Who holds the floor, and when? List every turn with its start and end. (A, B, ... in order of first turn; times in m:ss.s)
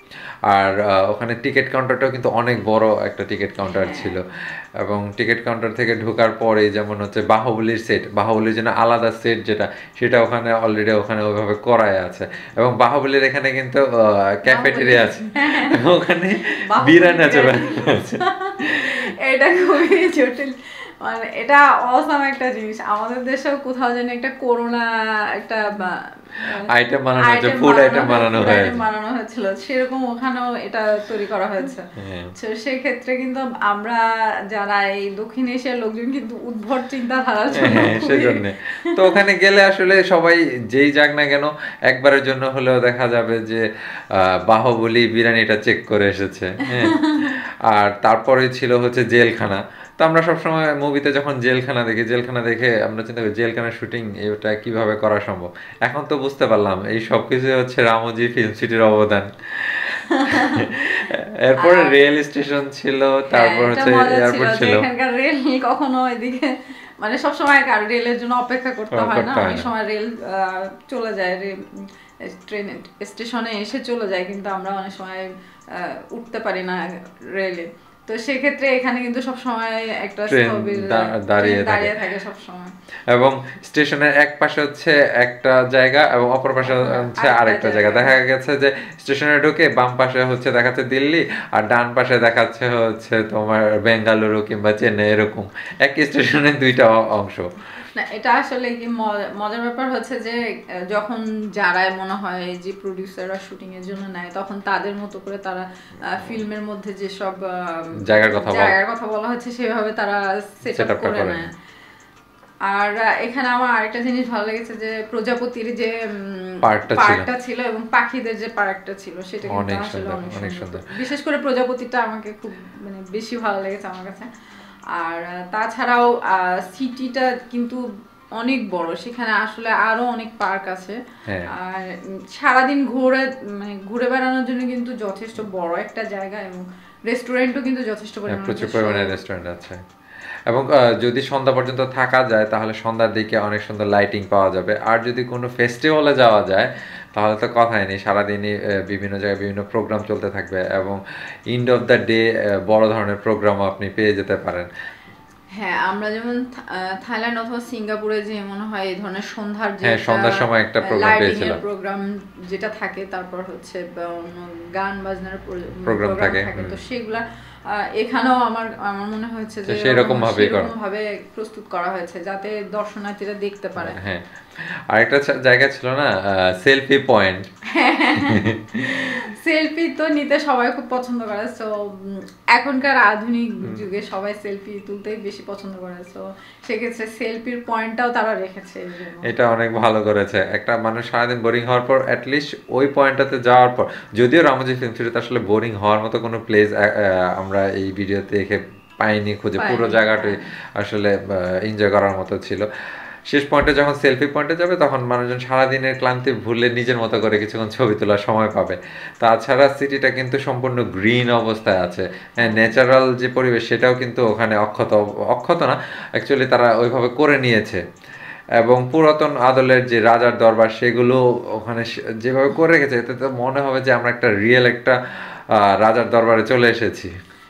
0:00.1-0:19.0 A
0:03.6-0:04.2 B
0:14.5-0:15.8 B
0:16.7-0:24.9 B
0:25.4-0:39.0 B
0:26.7-0:28.8 A
0:32.0-0:32.3 A
0:37.5-1:04.8 A
0:46.7-0:47.3 B
1:00.2-1:00.7 B
1:01.6-1:02.0 B
1:03.3-1:22.7 B
1:08.9-1:09.7 A
1:20.3-1:22.0 A
1:23.1-1:37.5 A
1:26.6-1:28.1 B
1:38.0-1:51.5 B
1:46.0-1:46.4 A
1:48.0-1:48.8 A
1:50.6-1:51.5 A
1:52.7-2:04.3 B
1:56.6-1:57.3 A
1:59.4-2:00.9 A
2:04.9-2:07.8 B
2:08.4-2:11.0 B
2:11.3-2:11.5 A
2:11.5-2:19.2 B
2:18.3-2:19.8 A
2:20.5-2:34.7 A
2:35.5-2:54.0 B
2:39.8-2:41.6 A
2:45.8-2:46.8 A
2:49.7-2:50.7 A
2:53.8-2:57.5 A
2:57.7-3:09.3 B
2:58.2-2:59.2 A
3:09.2-3:22.7 A
3:19.6-3:20.5 B
3:23.3-3:37.8 A
3:32.4-3:32.8 B
3:38.6-3:47.1 A